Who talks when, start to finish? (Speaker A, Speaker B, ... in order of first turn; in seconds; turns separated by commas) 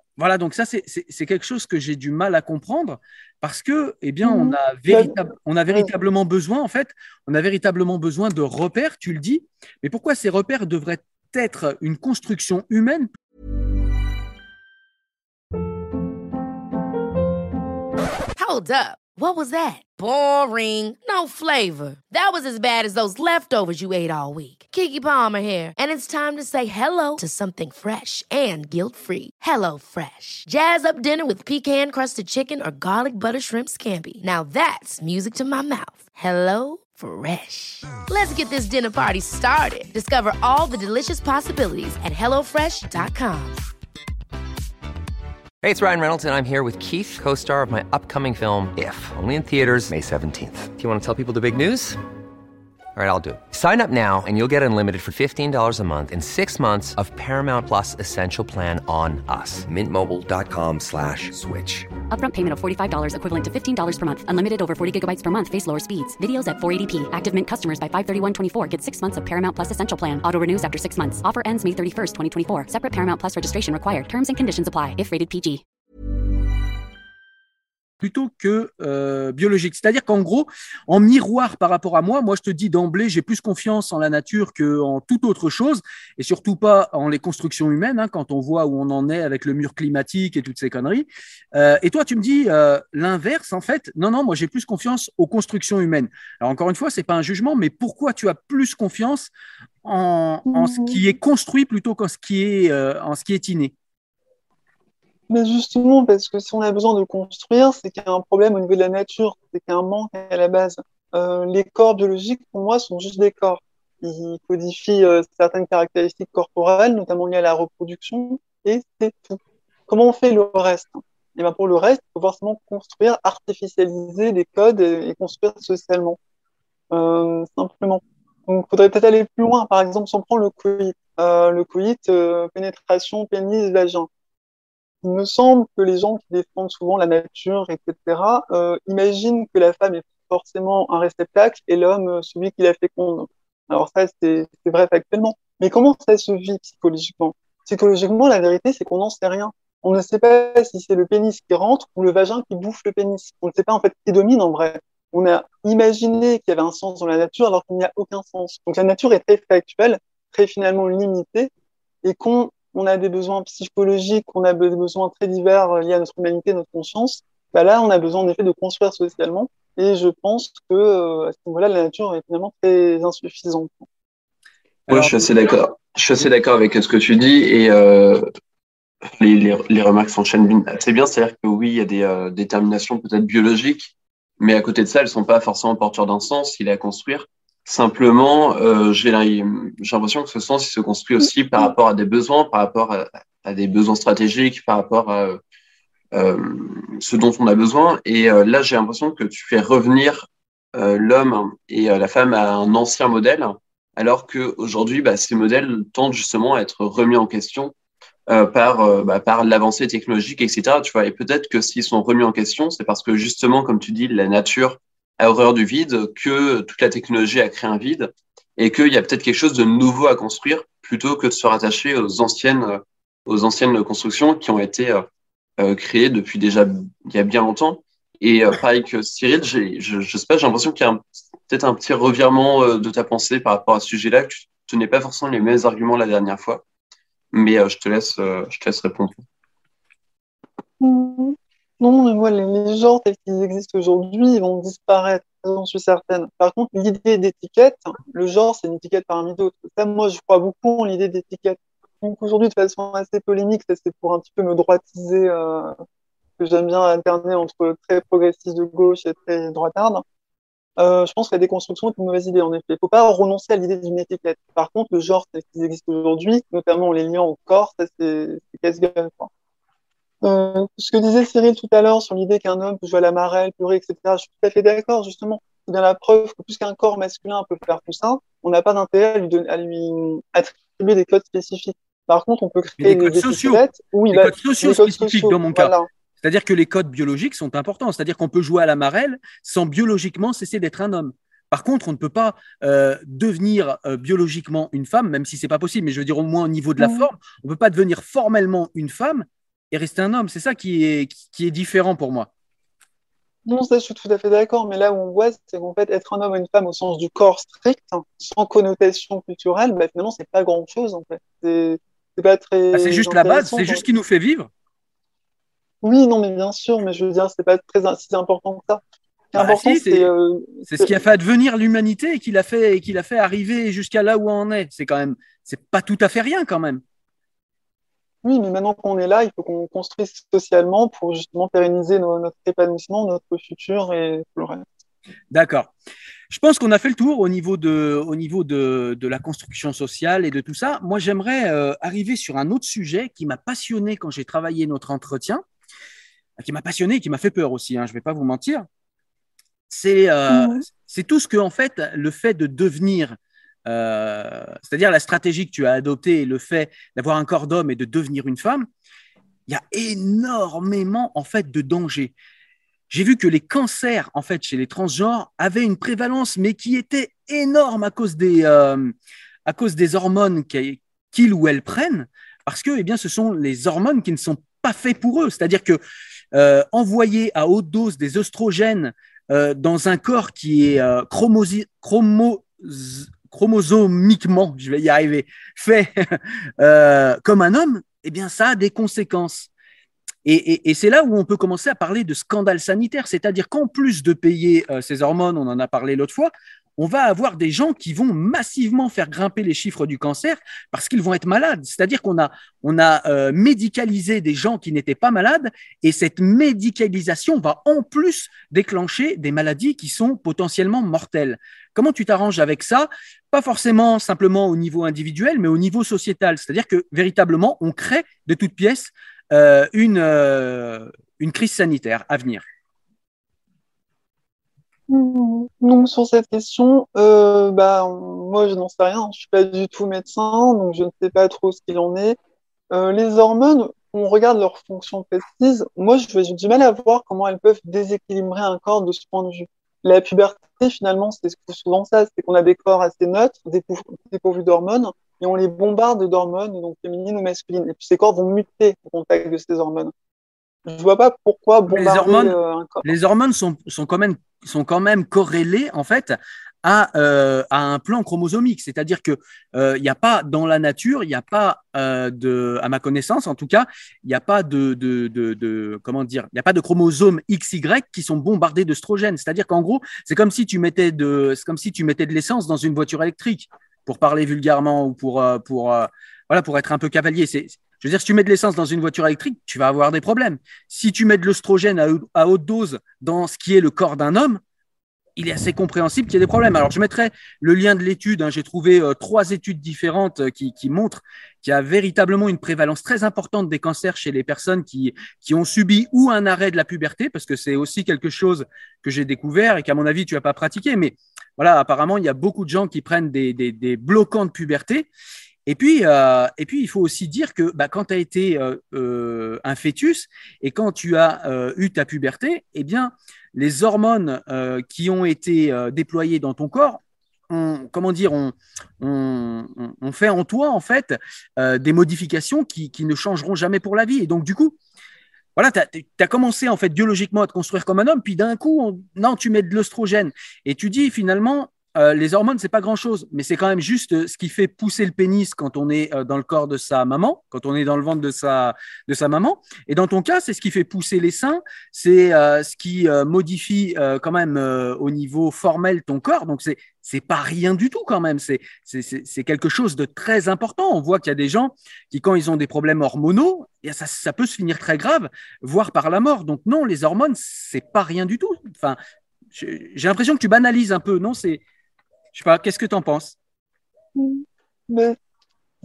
Speaker A: 0.2-13.1, Speaker B: 4.2-5.2, Speaker C: 18.4-43.6, Speaker D: 45.6-52.0, Speaker D: 52.9-62.0, Speaker E: 62.1-75.6, Speaker A: 78.0-99.3, Speaker A: 99.8-103.7, Speaker B: 100.5-101.0, Speaker B: 105.3-126.2, Speaker B: 126.9-134.1, Speaker B: 135.0-161.5, Speaker B: 162.0-173.8, Speaker A: 174.9-175.2, Speaker F: 174.9-178.2, Speaker F: 179.2-195.4, Speaker F: 196.1-207.7, Speaker F: 208.3-225.1, Speaker F: 225.6-236.6, Speaker F: 237.3-239.2, Speaker B: 240.8-255.8, Speaker B: 256.4-260.0, Speaker B: 260.8-269.3, Speaker B: 270.2-285.9, Speaker A: 282.8-302.3, Speaker B: 296.8-297.1, Speaker B: 303.4-313.8, Speaker A: 312.7-314.5, Speaker B: 315.8-318.8, Speaker B: 319.3-321.0, Speaker A: 319.4-320.1, Speaker A: 320.7-326.8, Speaker B: 328.2-334.6, Speaker A: 335.3-335.7, Speaker A: 336.3-345.4, Speaker A: 346.4-348.6, Speaker A: 349.7-358.6, Speaker B: 350.3-350.6, Speaker A: 359.5-362.1, Speaker A: 362.9-368.9, Speaker A: 369.4-375.8, Speaker A: 376.3-389.5, Speaker A: 390.2-422.4, Speaker B: 424.9-432.2, Speaker B: 432.7-449.9, Speaker B: 450.7-452.9, Speaker A: 451.7-484.4, Speaker A: 485.2-504.9, Speaker A: 505.5-524.5, Speaker A: 525.4-558.8, Speaker A: 559.3-561.4, Speaker A: 562.1-563.1, Speaker B: 564.0-565.0